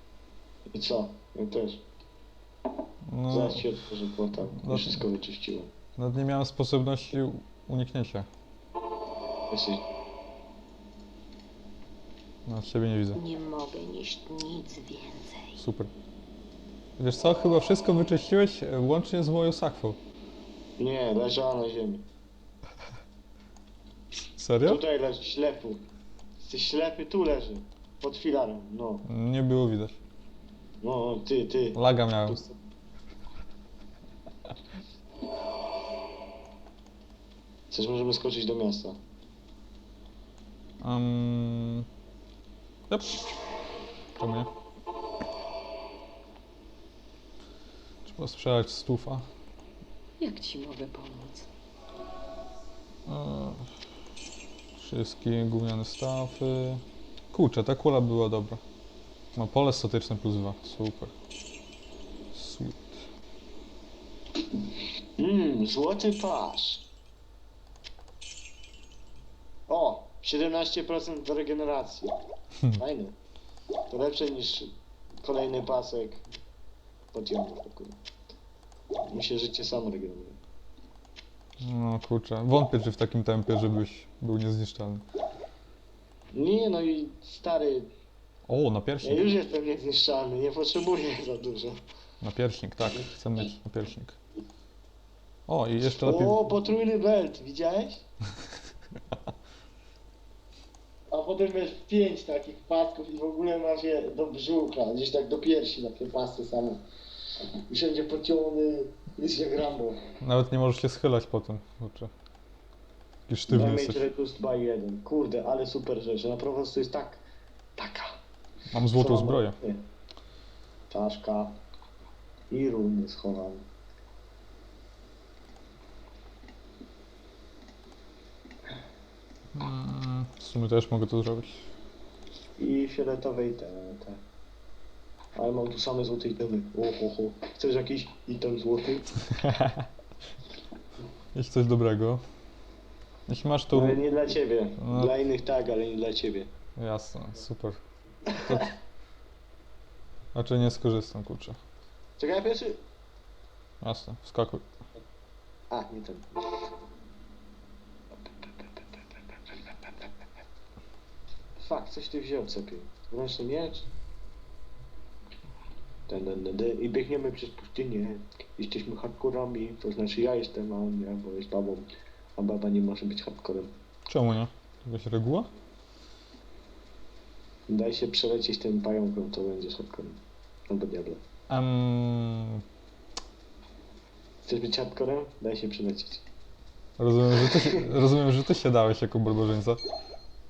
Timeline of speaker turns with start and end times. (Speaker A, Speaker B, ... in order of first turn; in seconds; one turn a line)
Speaker A: 0.7-1.8
Speaker B: 3.1-3.7
Speaker A: 3.3-5.7
Speaker B: 4.5-5.1
Speaker B: 6.0-8.3
Speaker A: 9.5-9.8
Speaker B: 12.5-13.2
Speaker C: 13.2-15.6
Speaker B: 15.6-15.9
Speaker B: 17.0-20.0
Speaker A: 20.8-22.1
Speaker B: 24.4-24.8
Speaker A: 24.6-25.8
Speaker A: 26.4-29.1
Speaker B: 29.1-30.0
Speaker A: 30.8-32.5
Speaker B: 31.8-32.4
Speaker A: 37.7-39.0
Speaker B: 40.8-41.9
Speaker B: 42.9-43.2
Speaker B: 44.2-44.5
Speaker B: 48.0-49.2
Speaker C: 50.2-51.5
Speaker B: 53.1-53.7
Speaker B: 54.8-58.6
Speaker B: 59.4-61.1
Speaker B: 62.3-63.0
Speaker A: 65.2-66.8
Speaker A: 69.7-72.1
Speaker A: 72.8-73.2
Speaker A: 73.9-76.2
Speaker A: 77.1-78.0
Speaker A: 79.1-80.4
Speaker B: 81.6-85.0
Speaker A: 86.3-87.9
Speaker B: 88.5-89.3
Speaker A: 89.0-91.8
Speaker B: 92.2-94.2
Speaker B: 95.5-96.4
Speaker A: 95.9-98.0
Speaker A: 101.1-106.8
Speaker A: 107.7-110.0
Speaker B: 110.2-112.1
Speaker B: 113.3-114.1
Speaker A: 113.5-117.2
Speaker A: 117.8-118.1
Speaker B: 118.7-119.6
Speaker A: 118.9-119.8
Speaker A: 120.9-121.6
Speaker A: 122.5-123.7
Speaker B: 129.5-131.7
Speaker A: 132.6-134.2
Speaker A: 135.4-139.1
Speaker B: 139.3-139.9
Speaker B: 141.3-142.2
Speaker B: 143.3-144.0
Speaker A: 143.7-146.5
Speaker B: 144.8-145.1
Speaker B: 146.8-148.8
Speaker A: 148.3-148.7
Speaker B: 150.3-151.6
Speaker A: 152.2-152.8
Speaker B: 153.8-154.7
Speaker A: 155.7-156.3
Speaker A: 158.2-160.1
Speaker A: 161.6-163.9
Speaker A: 166.1-173.7
Speaker B: 174.1-175.5
Speaker A: 177.7-181.2
Speaker B: 181.5-182.6
Speaker A: 184.4-186.2
Speaker B: 187.0-189.8
Speaker A: 187.4-187.9